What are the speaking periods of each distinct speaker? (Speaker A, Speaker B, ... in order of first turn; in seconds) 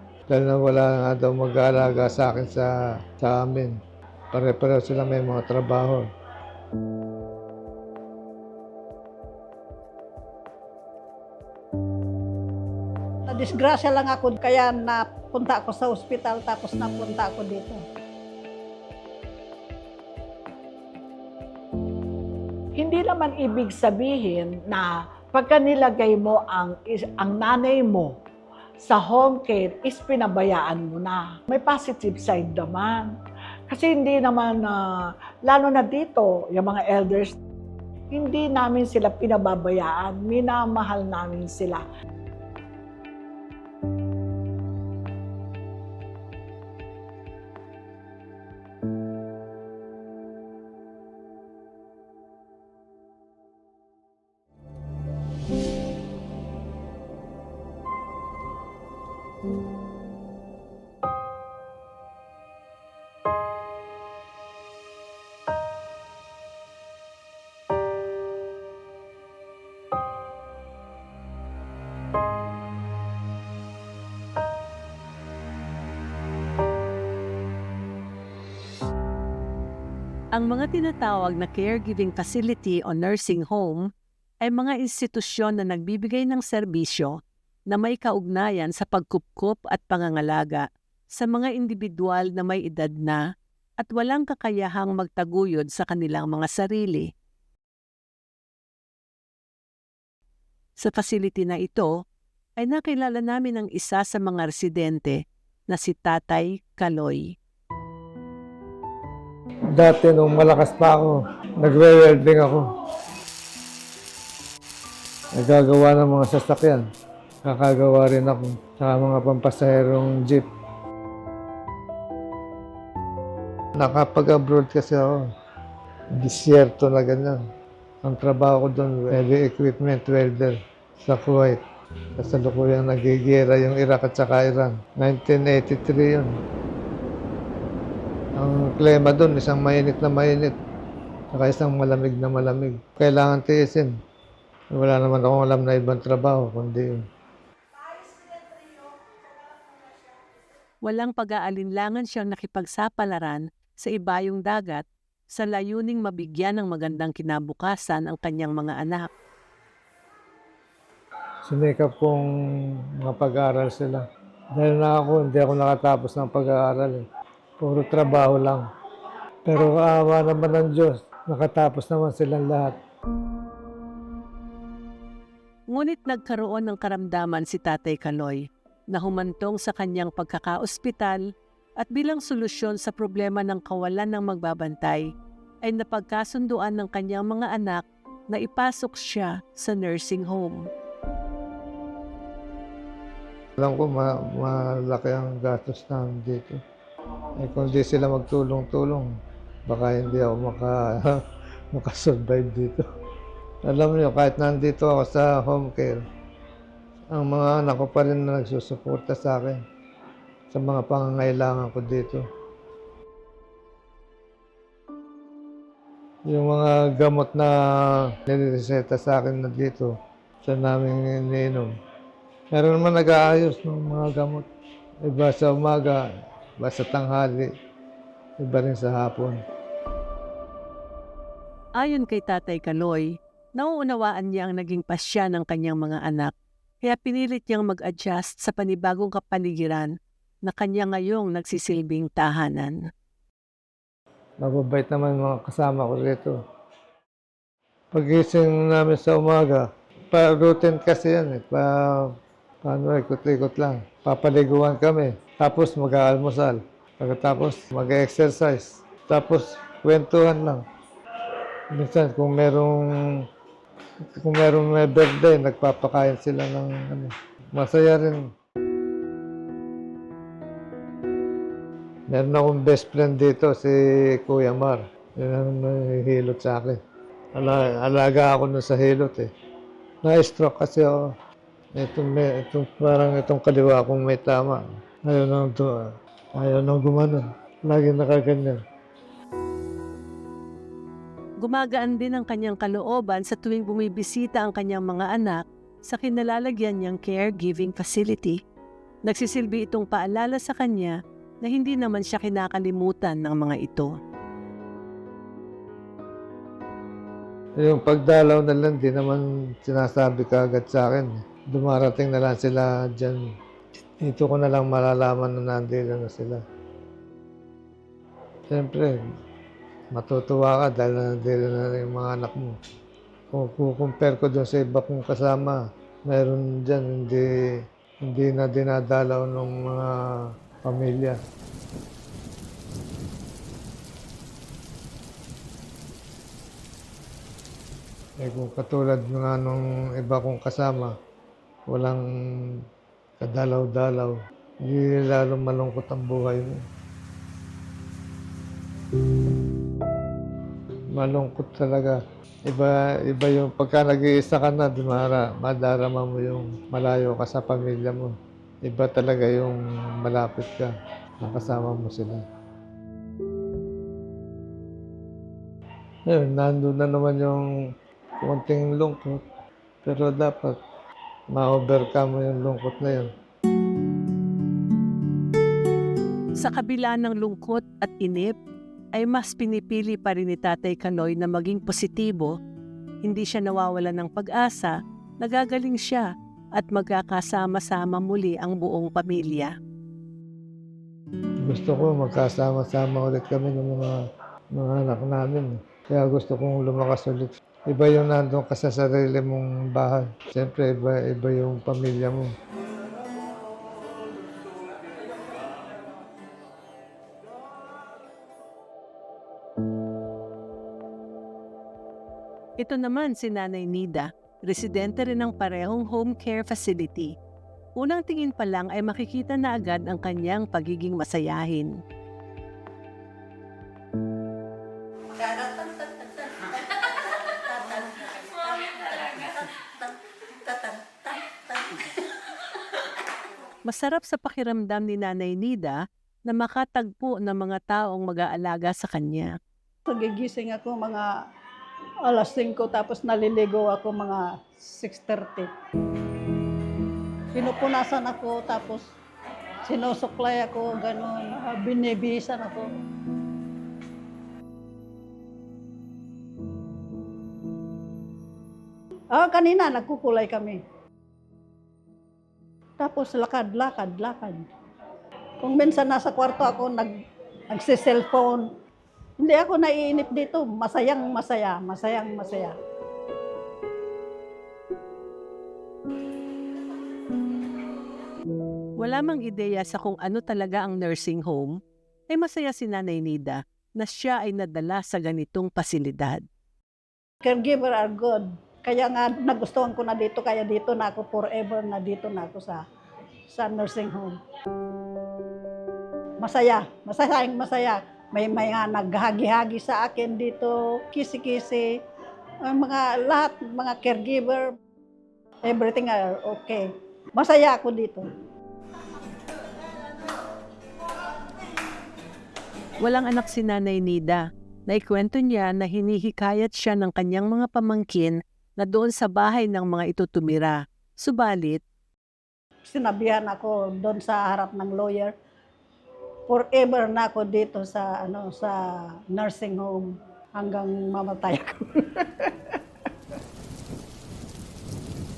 Speaker A: 0.3-3.8, 4.3-6.1, 109.7-112.7, 115.4-116.8, 117.5-120.5, 123.8-125.2, 126.2-127.4, 128.0-131.6, 132.2-136.3, 138.4-140.6, 141.3-143.9, 144.8-147.0, 161.4-162.3, 163.0-167.1, 167.6-168.7, 169.5-172.8, 193.6-196.6, 197.4-199.1, 199.7-201.2, 201.7-202.9, 203.7-206.0, 207.1-209.6, 210.5-212.2, 216.3-221.7, 222.5-224.5, 225.1-226.0, 226.6-227.5, 228.4-229.4, 244.4-246.4, 247.9-260.6, 261.7-263.2, 264.0-268.3, 272.1-276.8, 277.4-279.3, 280.0-281.0, 281.8-285.7, 286.4-288.6, 307.6-313.2, 314.0-316.4, 318.5-319.0, 319.9-322.6, 323.3-327.3, 328.0-331.2, 338.2-340.9, 341.7-342.6, 343.2-346.6, 350.9-362.2, 366.1-367.5, 368.2-369.2, 369.9-370.6, 371.3-373.1, 391.4-394.0, 394.5-402.3
Speaker B: 13.3-17.8, 439.9-441.1, 442.0-445.5, 447.3-448.9, 449.6-452.7, 459.1-460.6, 462.8-464.5, 465.4-466.9, 467.5-468.5, 469.2-472.6, 487.2-492.6, 493.3-494.2, 496.2-501.8, 502.4-504.6, 505.5-508.1, 522.7-525.1, 526.3-532.3
Speaker C: 22.8-28.1, 28.8-33.1, 33.7-37.4, 38.1-41.8
Speaker D: 80.3-83.9, 84.4-87.2, 87.7-93.2, 93.8-97.1, 100.8-101.9, 102.6-107.3, 150.8-159.1, 175.7-181.2, 181.8-185.0, 185.7-190.6, 231.8-236.3, 236.8-239.9, 240.5-242.8, 291.4-298.4, 299.1-303.9, 376.4-378.4, 379.0-382.3, 383.0-389.5, 412.6-417.1, 417.8-421.7, 433.6-439.4, 478.8-481.6, 482.1-486.2, 512.8-521.6